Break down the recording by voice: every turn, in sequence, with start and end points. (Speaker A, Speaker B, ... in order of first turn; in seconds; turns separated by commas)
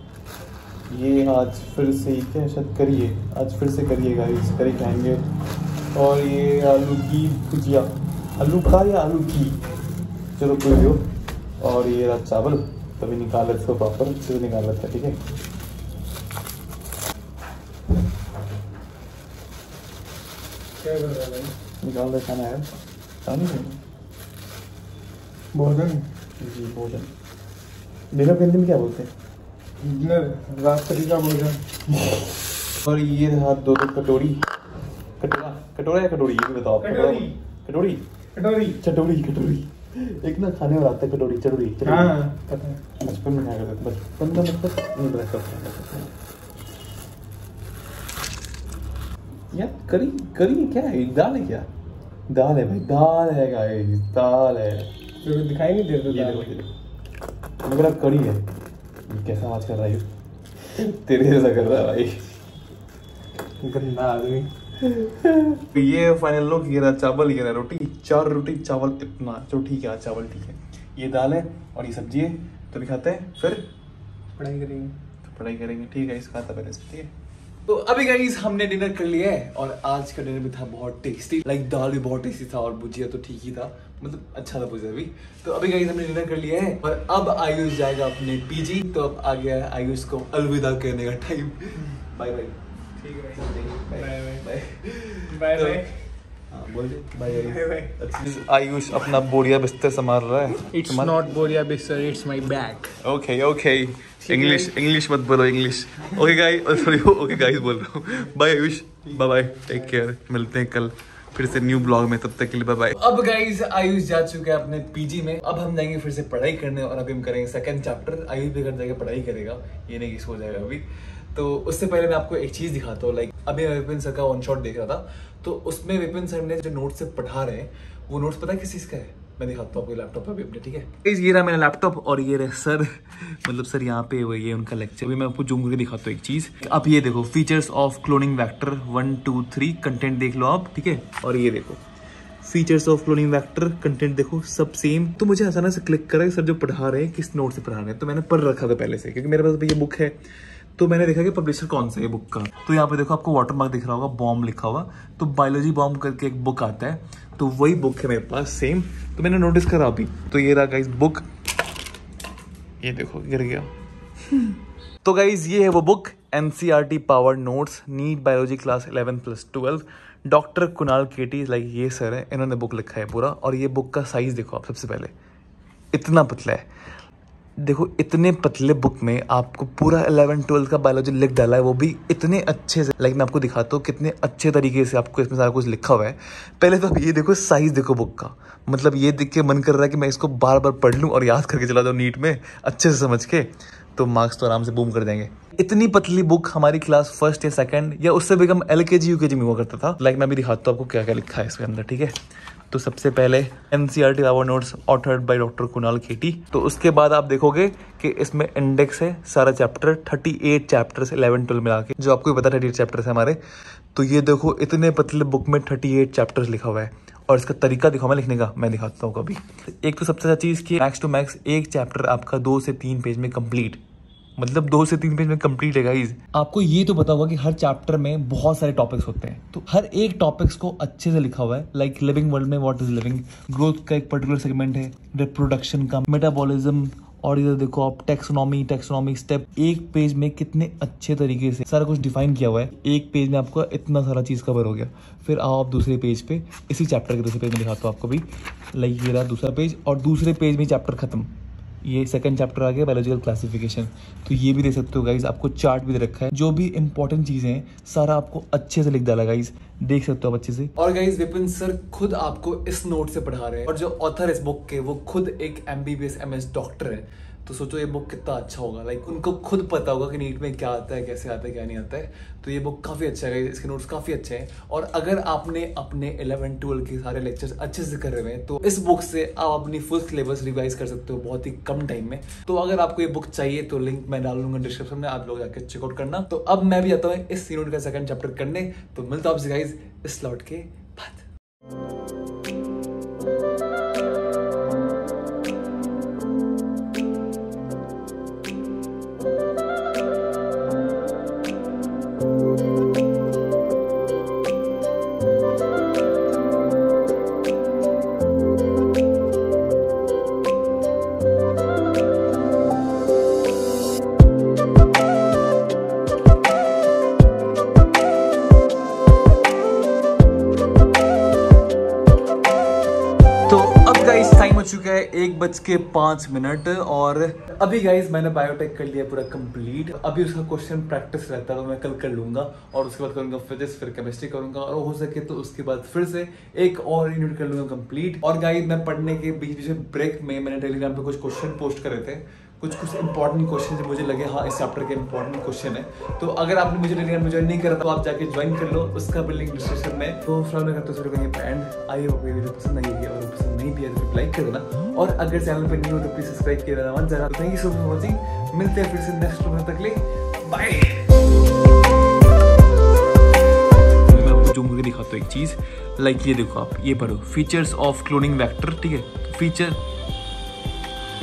Speaker A: 0.9-5.3, Speaker A: 5.9-9.6, Speaker A: 10.4-11.1, Speaker A: 11.6-15.2, Speaker B: 20.8-21.5, Speaker A: 21.8-22.7, Speaker A: 23.2-23.8, Speaker B: 25.5-26.1, Speaker A: 26.4-27.1, Speaker A: 28.1-29.1, Speaker B: 29.8-31.7, Speaker A: 32.8-34.4, Speaker A: 35.2-38.0, Speaker B: 36.8-37.4, Speaker B: 38.3-38.8, Speaker A: 38.7-42.2, Speaker B: 41.8-42.8, Speaker A: 43.0-46.1, Speaker A: 49.5-51.7, Speaker A: 52.3-54.9, Speaker B: 55.2-56.5, Speaker A: 56.1-56.7, Speaker A: 57.6-58.5, Speaker A: 59.1-60.1, Speaker A: 60.6-62.3, Speaker B: 63.6-65.2, Speaker A: 65.3-73.7, Speaker B: 74.4-75.0, Speaker A: 75.2-77.1, Speaker A: 77.7-92.6, Speaker B: 93.0-94.5, Speaker A: 93.3-95.8, Speaker B: 95.3-96.0, Speaker A: 96.5-101.2, Speaker B: 97.3-97.9, Speaker B: 100.7-103.0, Speaker A: 103.0-141.8, Speaker B: 104.2-104.7, Speaker A: 142.4-150.2, Speaker A: 150.8-161.2, Speaker A: 162.8-163.7, Speaker A: 164.2-175.1, Speaker A: 175.9-176.7, Speaker A: 177.6-202.2, Speaker A: 202.7-213.4, Speaker A: 213.9-223.8, Speaker A: 224.4-291.3, Speaker A: 323.5-361.1, Speaker A: 364.1-369.8